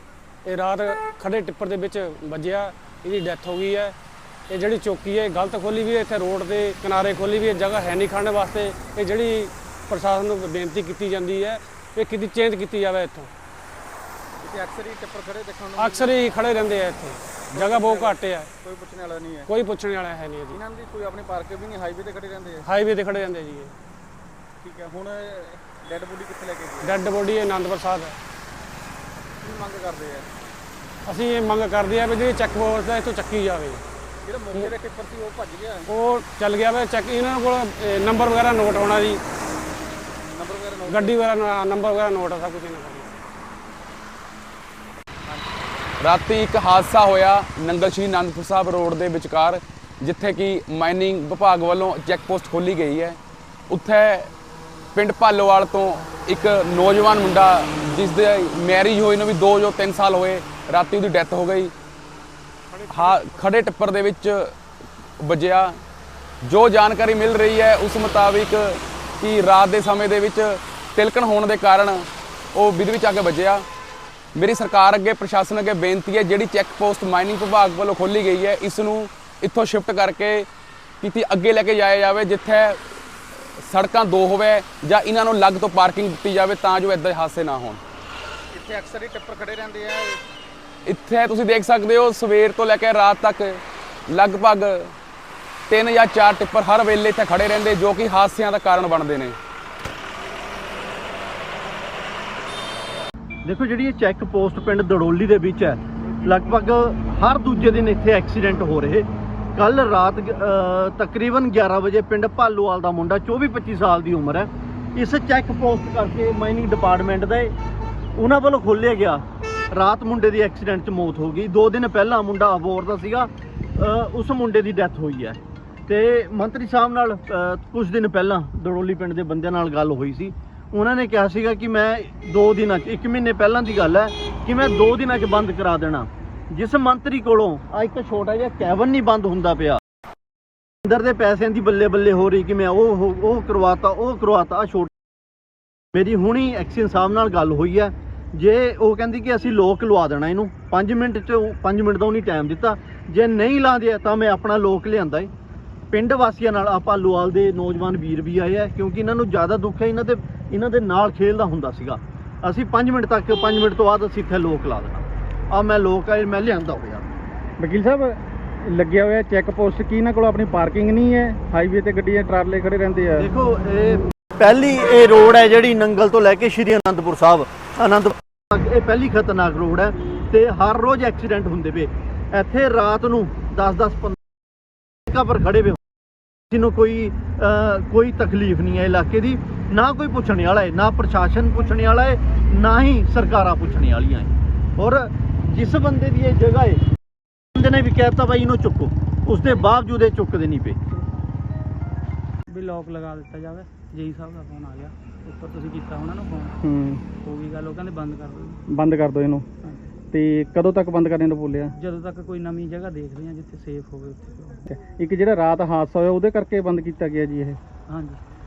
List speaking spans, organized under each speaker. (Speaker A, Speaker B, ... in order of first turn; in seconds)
Speaker A: 4.8-13.2, 15.8-17.0, 17.6-18.4, 19.5-20.4, 22.6-23.7, 27.0-28.1, 31.1-33.8, 35.9-39.1, 41.0-43.0
Speaker B: 14.4-16.5, 17.4-19.5, 20.4-22.7, 24.6-27.4, 29.4-30.3, 34.2-35.9, 40.3-41.2, 88.5-90.2
Speaker C: 46.0-53.2, 53.7-54.3, 54.9-61.7, 62.9-64.5, 65.2-65.8, 66.4-73.6, 74.3-80.5, 81.0-82.8, 83.6-87.8, 90.8-94.9, 95.7-99.4
Speaker D: 103.4-117.5, 118.2-139.8, 140.8-144.9, 145.9-155.3, 155.9-164.9, 165.5-167.1, 173.2-184.2, 185.1-185.8, 186.5-196.8, 197.5-200.8
Speaker E: 167.6-173.3, 206.6-207.0, 208.7-209.4, 210.1-211.7, 214.7-217.6
Speaker F: 202.5-206.5, 207.1-208.6, 211.8-214.6, 217.9-218.2